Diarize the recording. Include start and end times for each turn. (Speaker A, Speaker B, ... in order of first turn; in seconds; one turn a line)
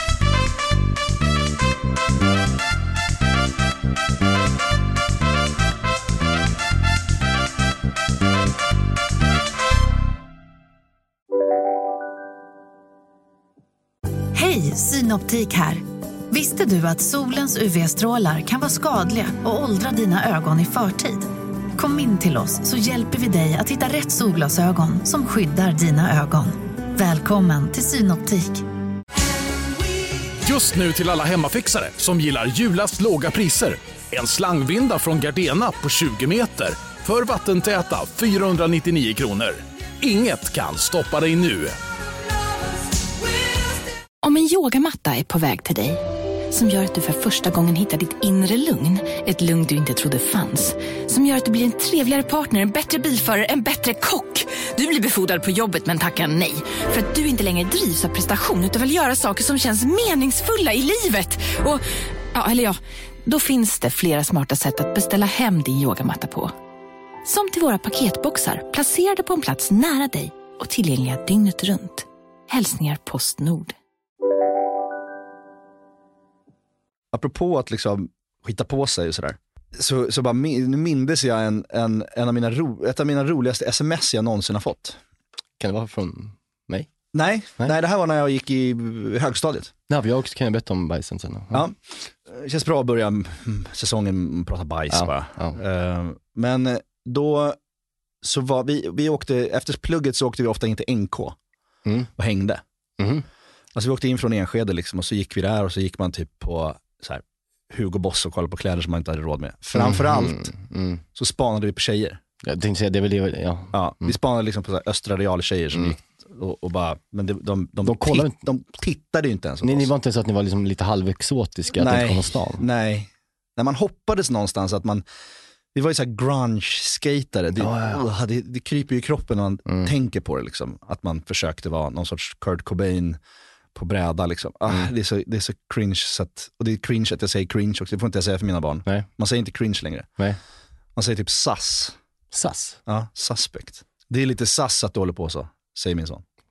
Speaker A: 14.3-28.6
Speaker B: 30.4-41.8
Speaker C: 44.2-66.5
Speaker C: 67.2-73.7
Speaker D: 77.1-85.0
Speaker E: 85.6-86.9
Speaker D: 87.1-89.7
Speaker E: 89.9-91.7
Speaker D: 91.5-97.6
Speaker E: 94.9-95.6
Speaker D: 98.2-101.3
Speaker E: 101.8-102.1
Speaker D: 102.2-102.6
Speaker E: 103.0-103.2
Speaker D: 103.7-110.5
Speaker E: 109.7-111.0
Speaker D: 111.2-112.2
Speaker E: 112.4-114.2
Speaker D: 113.7-119.9
Speaker E: 117.8-118.4
Speaker E: 119.6-122.6
Speaker D: 121.8-125.0
Speaker D: 125.7-133.2
Speaker E: 127.6-128.0
Speaker E: 129.7-129.9
Speaker D: 133.7-140.1
Speaker D: 140.9-141.9
Speaker E: 142.3-142.8
Speaker D: 142.9-146.2